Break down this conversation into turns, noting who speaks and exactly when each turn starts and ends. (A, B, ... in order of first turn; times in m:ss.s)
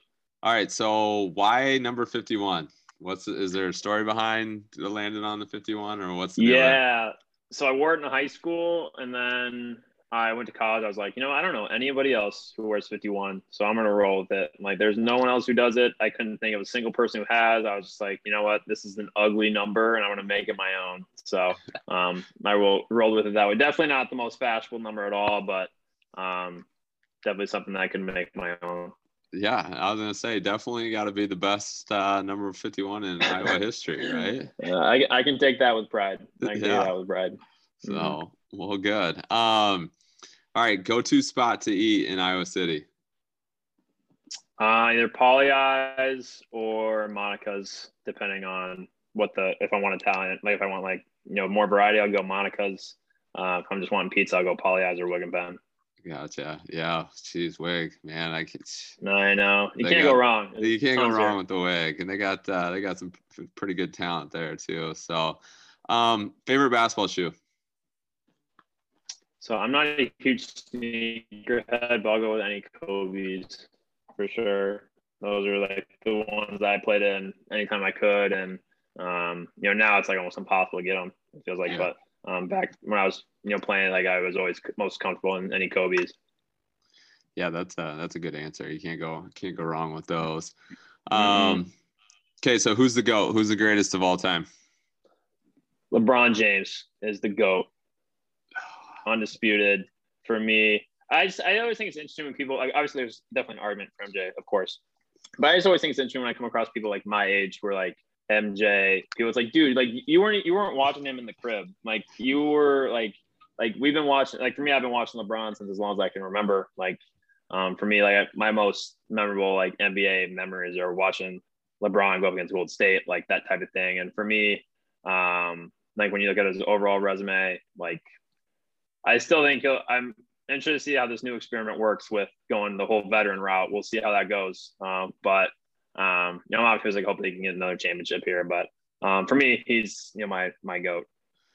0:00.4-0:06.8 A
0:06.4-0:26.7 B
0:27.2-0:28.9 B
0:29.3-0:34.5 A
0:34.6-0:38.2 B
0:36.4-0:36.9 A
0:37.8-0:39.9 A
0:40.6-0:42.9 A
0:44.6-0:55.6 B
0:56.0-0:59.0 A
0:59.0-1:01.4 B
0:59.8-1:07.4 A
1:09.4-1:13.7 B
1:14.2-1:26.1 B
1:27.4-1:30.5 A
1:31.1-1:31.7 A
1:31.1-1:31.7 B
1:32.4-1:34.5 A
1:35.9-1:37.7 B
1:39.0-1:44.8 B
1:45.4-1:57.0 B
1:57.5-2:08.0 B
2:09.0-2:21.1 B